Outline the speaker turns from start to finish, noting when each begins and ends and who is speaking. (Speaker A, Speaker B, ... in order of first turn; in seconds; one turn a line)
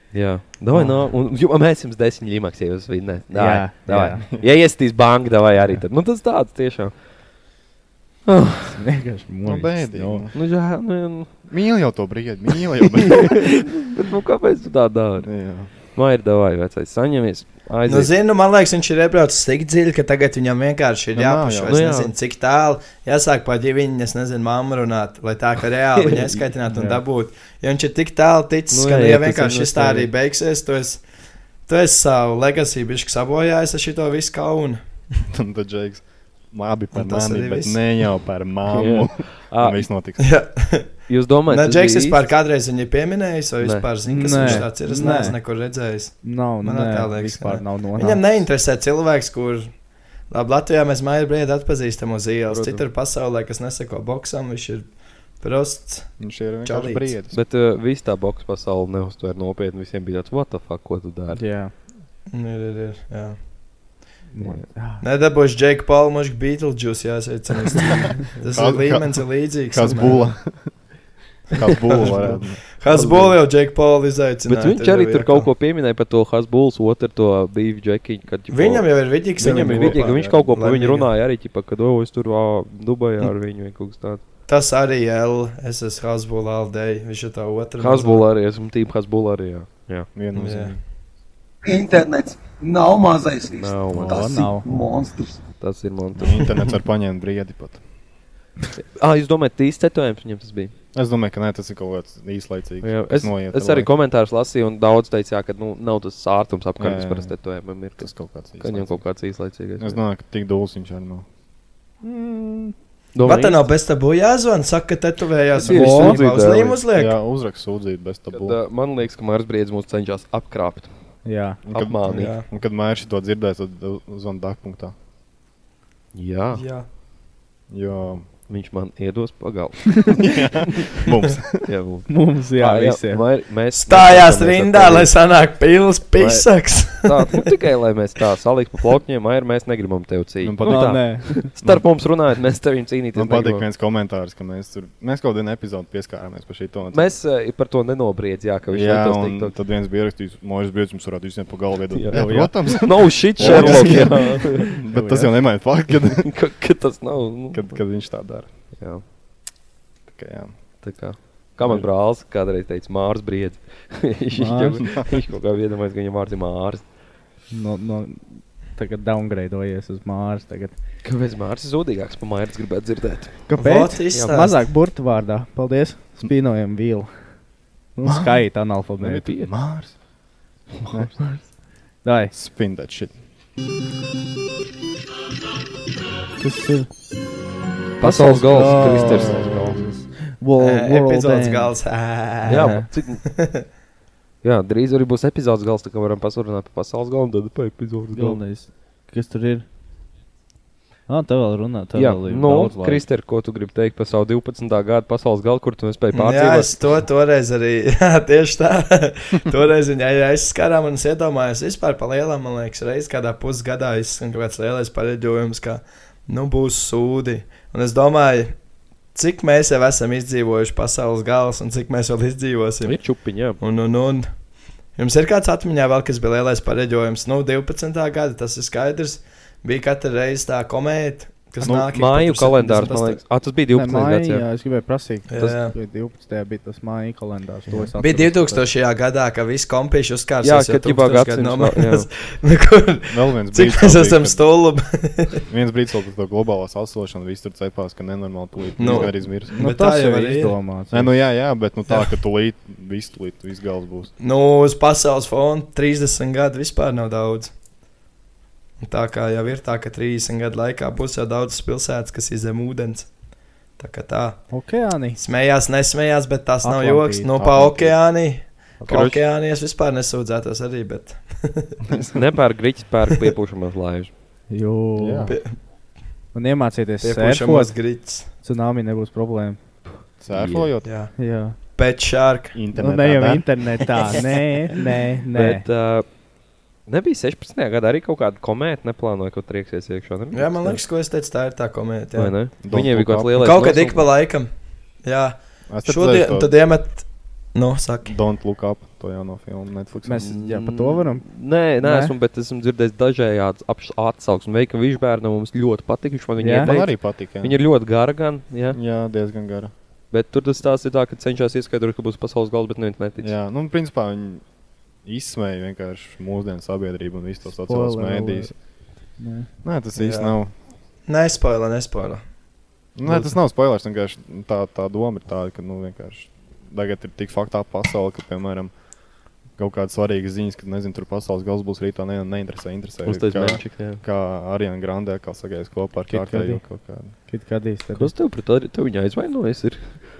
Speaker A: 0.1-6.9
Speaker B: 0.7-1.0
Speaker B: 3.3-4.2
Speaker A: 8.2-8.8
Speaker B: 8.7-10.3
Speaker C: 9.4-10.3
Speaker A: 10.3-11.3
Speaker C: 11.5-13.5
Speaker A: 13.0-15.3
Speaker C: 15.2-15.7
Speaker A: 15.9-18.1
Speaker D: 17.9-31.0
Speaker C: 21.1-21.8
Speaker A: 21.7-22.1
Speaker A: 26.0-26.4
Speaker B: 26.7-27.0
Speaker A: 28.7-30.1
Speaker D: 31.7-34.8
Speaker C: 35.3-40.3
Speaker D: 36.9-37.8
Speaker A: 38.7-39.8
Speaker D: 40.2-40.9
Speaker A: 41.1-42.3
Speaker D: 41.5-49.7
Speaker A: 43.6-43.9
Speaker B: 44.0-45.3
Speaker B: 46.2-48.4
Speaker D: 50.3-54.9
Speaker A: 52.5-52.8
Speaker D: 55.4-57.1
Speaker C: 56.2-57.4
Speaker A: 57.3-61.4
Speaker B: 61.3-61.7
Speaker D: 62.3-63.4
Speaker B: 64.3-65.0
Speaker D: 65.0-70.2
Speaker C: 68.5-70.8
Speaker C: 71.5-72.6
Speaker D: 71.9-72.2
Speaker D: 72.8-75.5
Speaker A: 72.9-73.4
Speaker A: 74.5-84.2
Speaker D: 78.5-81.1
Speaker C: 79.4-80.4
Speaker D: 84.5-88.2
Speaker A: 87.8-90.1
Speaker C: 90.1-90.8
Speaker D: 90.3-90.8
Speaker E: 91.6-95.4
Speaker A: 93.5-94.3
Speaker C: 93.9-94.3
Speaker B: 94.0-94.7
Speaker A: 95.6-96.5
Speaker C: 96.2-97.8
Speaker A: 99.0-100.7
Speaker C: 100.9-103.9
Speaker A: 102.8-110.0
Speaker C: 106.8-107.4
Speaker C: 108.0-109.1
Speaker C: 109.8-111.2
Speaker B: 112.0-112.7
Speaker A: 113.1-113.7
Speaker D: 113.2-117.2
Speaker A: 115.5-116.8
Speaker B: 115.6-116.2
Speaker C: 116.9-118.6
Speaker A: 118.3-120.9
Speaker B: 121.2-121.6
Speaker C: 121.7-124.9
Speaker A: 121.7-122.4
Speaker D: 122.1-122.4
Speaker A: 126.1-126.6
Speaker D: 126.5-126.8
Speaker C: 127.7-128.2
Speaker A: 128.5-130.2
Speaker C: 130.2-131.7
Speaker A: 131.6-135.1
Speaker B: 132.1-133.2
Speaker D: 133.7-137.4
Speaker A: 136.2-143.7
Speaker C: 140.4-141.9
Speaker B: 140.6-141.5
Speaker C: 143.1-147.2
Speaker A: 146.9-149.5
Speaker C: 148.7-156.3
Speaker A: 151.9-154.8
Speaker B: 152.1-155.3
Speaker A: 156.1-157.8
Speaker C: 157.5-158.5
Speaker A: 158.8-159.0
Speaker C: 160.1-160.5
Speaker A: 160.8-166.8
Speaker C: 161.6-161.9
Speaker B: 164.3-164.8
Speaker B: 167.5-170.7
Speaker A: 171.0-173.4
Speaker B: 173.5-177.1
Speaker D: 173.5-174.6
Speaker B: 178.0-179.3
Speaker C: 178.0-180.0
Speaker A: 179.2-179.5
Speaker C: 180.9-181.1
Speaker B: 182.0-182.3
Speaker C: 182.3-183.1
Speaker B: 186.4-186.9
Speaker A: 188.0-189.8
Speaker B: 188.0-191.8
Speaker C: 188.7-189.7
Speaker D: 190.6-193.6
Speaker B: 192.5-192.8
Speaker A: 192.5-193.2
Speaker A: 194.4-198.4
Speaker B: 198.1-199.7
Speaker B: 201.1-203.0
Speaker A: 201.9-206.8
Speaker D: 206.1-218.5
Speaker D: 219.1-224.3
Speaker A: 222.8-223.6
Speaker D: 224.9-233.2
Speaker C: 231.6-231.9
Speaker A: 231.7-234.4
Speaker B: 233.7-238.6
Speaker D: 235.3-235.7
Speaker D: 238.0-245.4
Speaker A: 240.4-242.1
Speaker C: 243.1-244.5
Speaker C: 245.5-249.6
Speaker D: 248.8-250.6
Speaker B: 249.5-251.1
Speaker C: 250.9-254.1
Speaker D: 254.2-257.5
Speaker D: 258.8-263.1
Speaker D: 263.8-264.5
Speaker B: 264.5-265.2
Speaker D: 265.2-271.8
Speaker B: 266.6-267.3
Speaker C: 267.3-268.0
Speaker A: 268.9-269.2
Speaker C: 271.9-272.1
Speaker A: 272.1-274.1
Speaker B: 274.5-275.3
Speaker C: 275.0-275.3
Speaker D: 275.3-275.5
Speaker B: 276.3-277.7
Speaker D: 277.0-278.3
Speaker B: 278.4-279.6
Speaker C: 280.2-280.9
Speaker A: 280.3-280.7
Speaker D: 280.8-281.1
Speaker B: 281.2-281.5
Speaker D: 281.7-282.6
Speaker C: 282.5-283.5
Speaker B: 282.8-285.6
Speaker A: 285.3-286.1
Speaker A: 286.9-290.8
Speaker D: 290.3-292.3
Speaker A: 292.1-294.1
Speaker C: 292.6-293.4
Speaker D: 293.4-294.5
Speaker D: 295.0-298.1
Speaker C: 295.7-296.5
Speaker C: 298.0-300.4
Speaker B: 300.1-301.2
Speaker A: 300.2-308.8
Speaker B: 301.8-302.1
Speaker B: 306.4-306.7
Speaker C: 306.6-307.6
Speaker C: 308.7-309.7
Speaker A: 310.1-313.3
Speaker C: 313.2-314.4
Speaker C: 315.0-318.5
Speaker B: 317.6-318.5
Speaker B: 319.2-319.5
Speaker C: 319.6-320.5
Speaker D: 319.9-320.4
Speaker D: 321.1-322.2
Speaker C: 322.9-328.7
Speaker C: 329.6-337.1
Speaker A: 333.0-334.0
Speaker B: 336.1-336.6
Speaker B: 337.2-338.1
Speaker A: 337.9-339.9